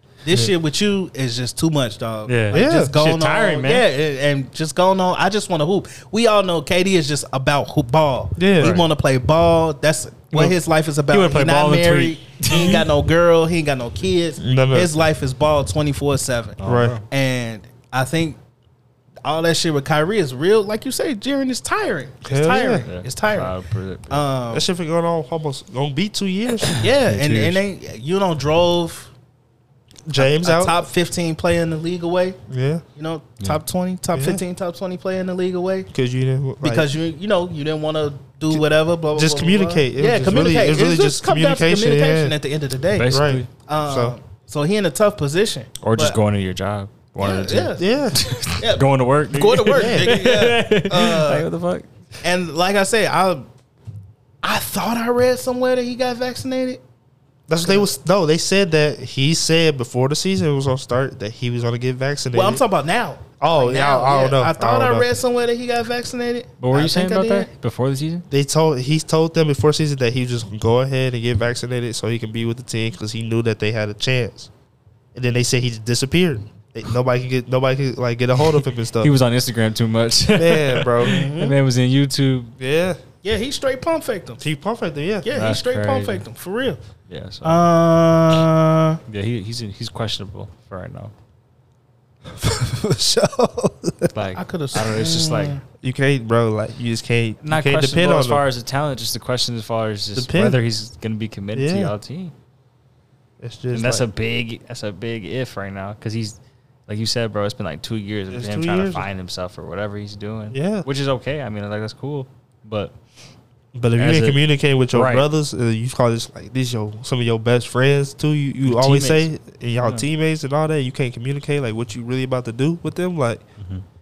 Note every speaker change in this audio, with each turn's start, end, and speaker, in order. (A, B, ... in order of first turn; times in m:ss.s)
0:00.2-0:16.6 A
0:02.3-0:03.9 B
0:02.5-0:02.9 C
0:08.4-0:08.8 C
0:11.1-0:12.8 B
0:14.4-0:15.0 C
0:16.6-0:17.0 B
0:16.6-0:17.0 C
0:17.1-0:18.4 A
0:19.2-0:23.5 A
0:22.2-0:22.8 C
0:22.8-0:24.2 B
0:24.1-0:24.6 A
0:24.5-0:26.8 C
0:26.7-0:27.6 B
0:26.8-0:29.1 A
0:30.1-0:30.8 C
0:30.2-0:32.4 A
0:32.5-0:32.8 C
0:33.0-0:35.9 A
0:34.1-0:34.4 C
0:35.9-0:36.9 C
0:36.6-0:43.1 A
0:38.5-0:42.3 C
0:43.0-0:43.5 B
0:43.1-0:44.2 C
0:43.6-0:46.2 A
0:45.8-0:51.9 B
0:47.2-0:47.8 A
0:47.8-0:48.2 C
0:48.5-0:51.5 A
0:49.7-0:50.2 C
0:52.2-0:53.5 A
0:54.4-0:56.8 A
0:57.5-1:02.6 C
1:02.3-1:07.5 A
1:03.4-1:05.1 C
1:06.6-1:08.2 B
1:08.3-1:14.5 C
1:15.1-1:19.1 C
1:18.5-1:22.5 B
1:20.3-1:21.2 C
1:21.0-1:21.5 A
1:22.6-1:23.0 C
1:23.2-1:24.4 A
1:24.4-1:25.3 C
1:25.2-1:26.8 A
1:25.3-1:26.2 B
1:27.1-1:27.6 B
1:27.4-1:29.0 A
1:29.1-1:31.1 B
1:32.3-1:34.1 C
1:34.1-1:35.6 B
1:34.3-1:35.6 A
1:35.8-1:38.4 C
1:37.4-1:42.3 B
1:40.1-1:40.6 C
1:41.5-1:41.9 C
1:43.4-1:44.0 C
1:43.7-1:52.9 B
1:48.3-1:49.0 C
1:50.5-1:50.9 C
1:53.7-2:03.4 C
1:54.0-1:55.3 B
1:58.8-1:59.2 B
2:03.6-2:03.8 B